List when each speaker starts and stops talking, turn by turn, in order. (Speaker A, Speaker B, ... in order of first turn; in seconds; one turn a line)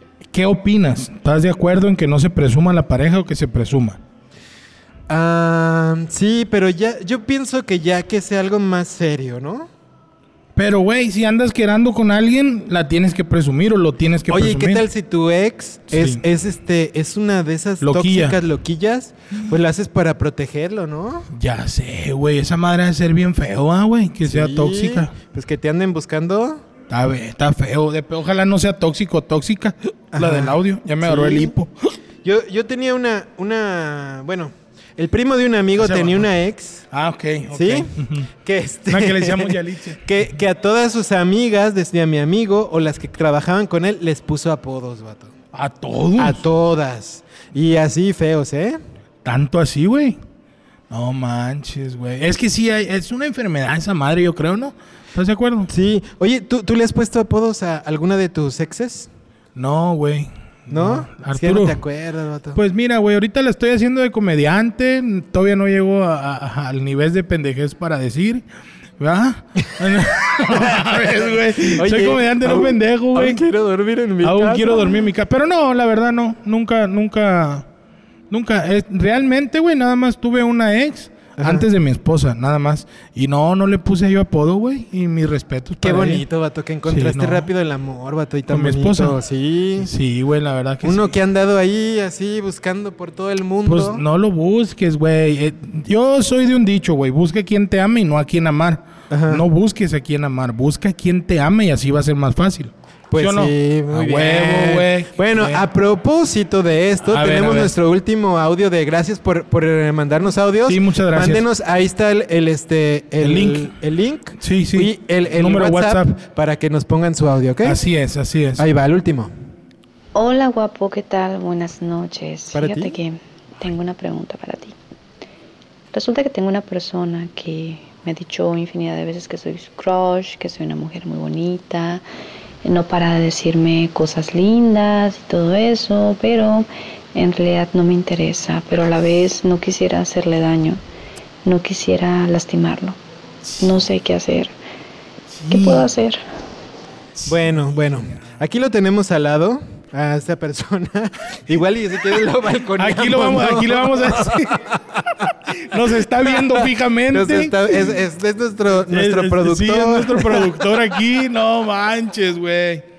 Speaker A: 0.3-4.0
Speaker B: 5.1-9.7
Speaker A: 10.6-14.9
Speaker B: 14.3-21.3
Speaker A: 15.9-16.2
Speaker A: 17.8-18.4
Speaker A: 21.3-25.1
Speaker B: 24.2-26.6
Speaker A: 26.9-31.9
Speaker B: 30.1-31.5
Speaker B: 32.2-36.9
Speaker A: 35.8-36.3
Speaker A: 36.9-38.3
Speaker B: 37.5-45.3
Speaker A: 38.9-40.1
Speaker A: 45.5-46.5
Speaker B: 46.2-48.8
Speaker A: 49.2-50.2
Speaker A: 50.9-55.7
Speaker B: 55.7-59.1
Speaker A: 59.6-61.8
Speaker B: 60.7-62.6
Speaker A: 62.5-68.4
Speaker A: 69.0-73.4
Speaker B: 70.5-75.0
Speaker A: 74.2-77.7
Speaker A: 78.3-86.2
Speaker B: 81.4-81.7
Speaker B: 85.8-89.9
Speaker A: 86.9-87.5
Speaker A: 88.5-89.2
Speaker A: 89.8-91.2
Speaker B: 90.8-94.0
Speaker A: 93.7-105.6
Speaker B: 99.1-99.4
Speaker B: 103.1-117.8
Speaker A: 107.1-107.7
Speaker A: 110.7-111.5
Speaker A: 113.2-113.7
Speaker A: 114.4-116.2
Speaker A: 117.6-118.7
Speaker B: 118.6-119.3
Speaker C: 120.2-124.8
Speaker B: 122.5-123.0
Speaker C: 125.9-132.0
Speaker C: 132.6-140.8
Speaker C: 141.4-143.0
Speaker A: 143.4-143.8
Speaker C: 143.6-144.5
Speaker A: 145.3-145.9
Speaker C: 145.5-146.2
Speaker B: 147.3-155.0
Speaker A: 152.8-157.8
Speaker B: 156.2-160.6
Speaker A: 158.9-162.8